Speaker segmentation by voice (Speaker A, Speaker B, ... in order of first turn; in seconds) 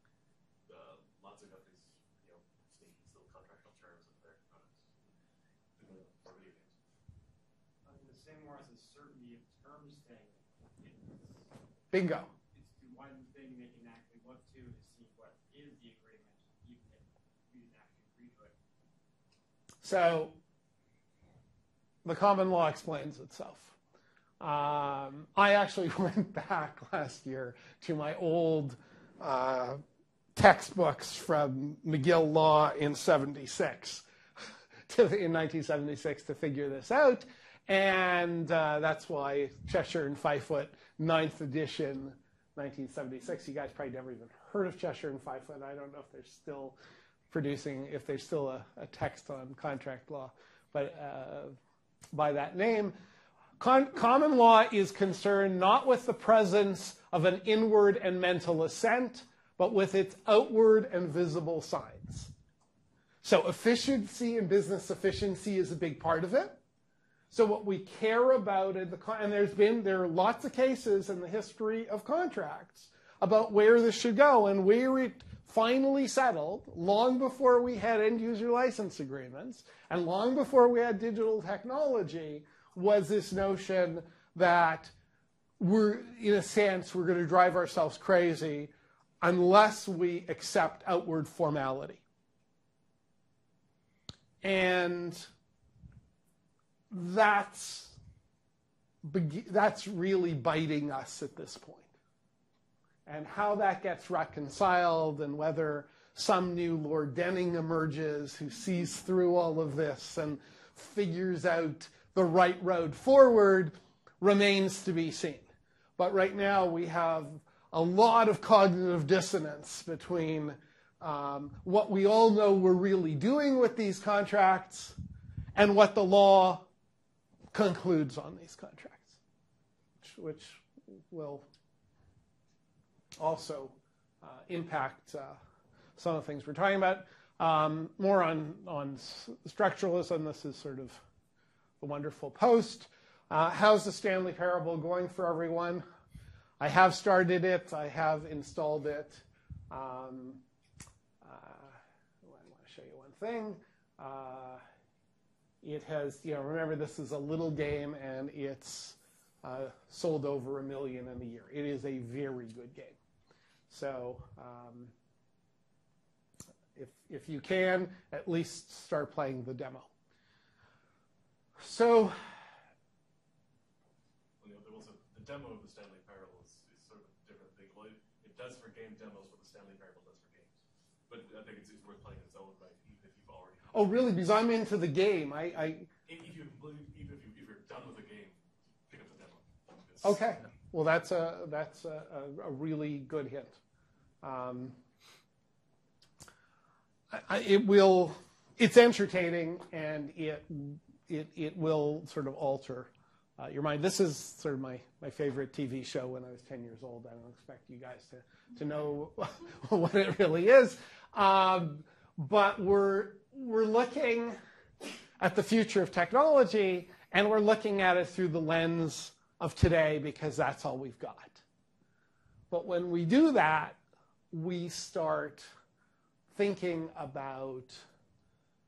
Speaker A: 0.7-4.9, 5.8-6.8, 174.4-180.6, 181.1-183.9, 186.1-188.4, 188.9-190.2
Speaker B: 7.8-11.5, 12.5-18.6
Speaker C: 11.9-12.3, 19.8-20.4, 22.1-23.8, 24.4-29.8, 30.4-34.0, 34.9-46.8, 47.3-51.6, 52.1-53.0, 53.6-62.3, 63.2-66.6, 67.3-84.9, 85.6-88.7, 89.2-92.0, 94.4-95.3, 96.9-98.0, 99.0-101.9, 103.1-115.5, 116.0-125.0, 125.5-126.7, 127.5-129.2, 130.0-131.4, 133.2-135.4, 136.0-141.0, 141.8-145.8, 146.6-150.4, 151.2-154.6, 155.6-163.0, 163.7-164.9, 166.8-169.9, 171.6-172.2, 183.7-185.9, 190.0-193.6, 194.2-194.8, 197.1-214.3, 215.2-221.4, 222.5-223.8, 224.3-225.5, 226.3-227.8